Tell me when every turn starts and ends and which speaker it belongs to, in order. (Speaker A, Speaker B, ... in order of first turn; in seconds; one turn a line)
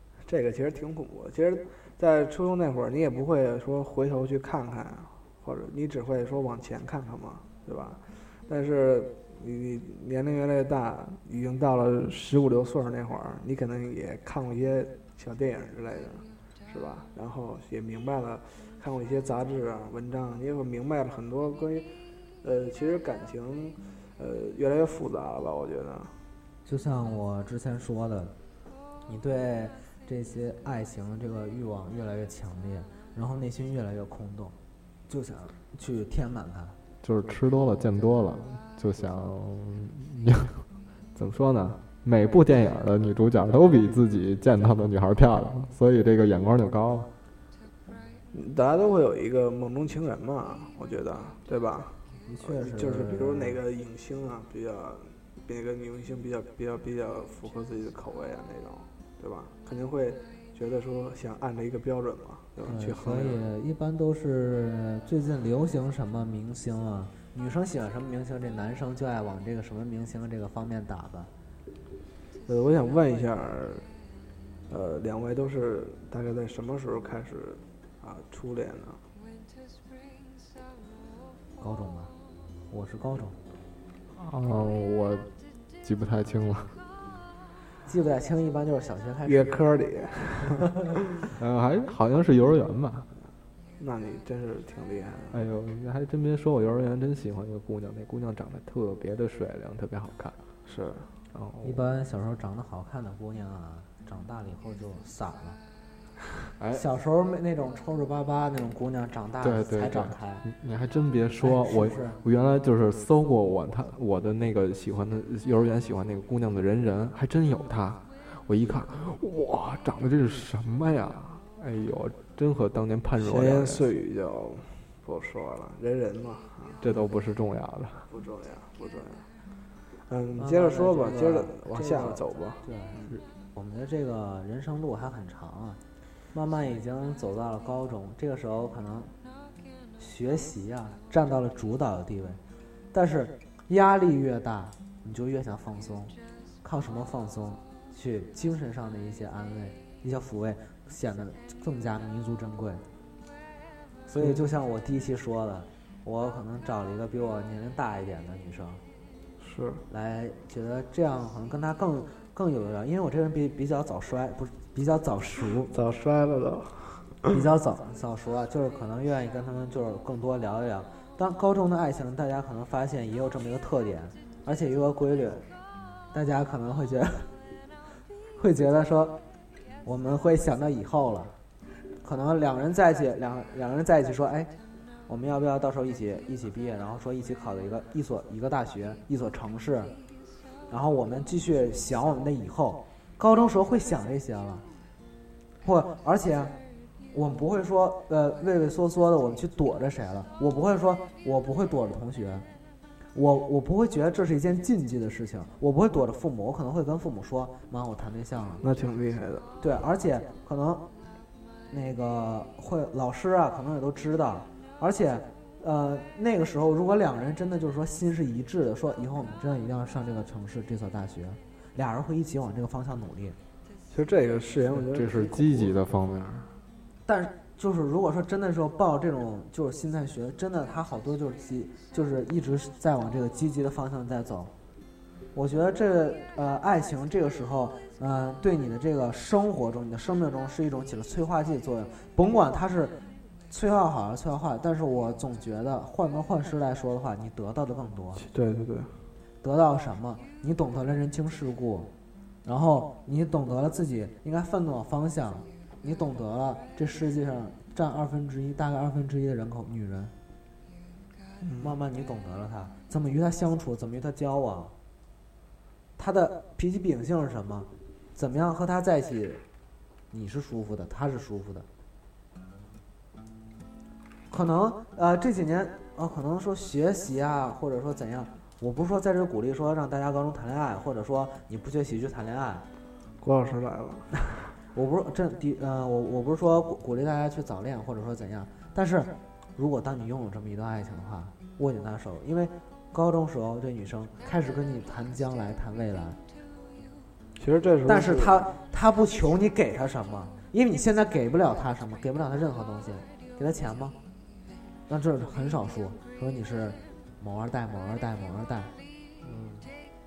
Speaker A: 0.2-21.9
Speaker A: 22.4-26.2
Speaker B: 26.6-28.3
Speaker B: 29.1-34.5
Speaker B: 35.1-36.8
Speaker C: 37.0-47.1
Speaker A: 48.3-63.4
Speaker B: 52.2-53.6
Speaker B: 62.6-71.3
Speaker A: 72.5-73.9
Speaker A: 74.7-79.0
Speaker B: 81.6-82.1
Speaker B: 82.7-83.3
Speaker C: 84.1-85.3
Speaker C: 85.8-86.8
Speaker B: 87.8-89.6
Speaker A: 89.2-90.8
Speaker C: 91.4-93.1
Speaker A: 93.8-95.4
Speaker C: 95.3-100.4
Speaker A: 100.6-101.1
Speaker C: 101.3-101.9
Speaker B: 101.6-105.6
Speaker C: 106.6-106.8
Speaker B: 106.7-110.5
Speaker C: 109.4-123.9
Speaker B: 111.4-112.2
Speaker A: 123.2-127.1
Speaker C: 126.8-128.1
Speaker A: 128.1-129.3
Speaker A: 130.0-133.1
Speaker B: 130.4-135.8
Speaker B: 136.3-139.1
Speaker B: 140.0-142.4
Speaker B: 142.9-152.8
Speaker B: 154.1-158.8
Speaker A: 159.4-159.8
Speaker B: 159.9-165.7
Speaker A: 165.7-167.2
Speaker B: 167.3-175.4
Speaker B: 176.1-177.3
Speaker B: 178.3-179.2
Speaker B: 179.8-181.3
Speaker B: 182.0-184.5
Speaker B: 185.1-189.9
Speaker B: 190.7-194.6
Speaker B: 195.6-196.5
Speaker B: 197.1-202.4
Speaker B: 203.1-208.6
Speaker A: 208.6-209.5
Speaker B: 209.6-210.8
Speaker B: 211.7-223.4
Speaker A: 223.9-225.7
Speaker C: 224.8-226.5
Speaker B: 227.1-234.5
Speaker B: 235.3-243.0
Speaker B: 243.5-248.2
Speaker A: 248.2-249.0
Speaker B: 249.4-251.9
Speaker B: 252.4-260.1
Speaker A: 261.4-261.8
Speaker B: 261.6-264.7
Speaker B: 266.0-269.4
Speaker B: 270.1-271.7
Speaker B: 274.3-282.6
Speaker A: 283.2-284.2
Speaker B: 284.7-296.2
Speaker A: 297.4-298.5
Speaker B: 297.8-303.9
Speaker B: 304.9-308.7
Speaker B: 309.2-309.6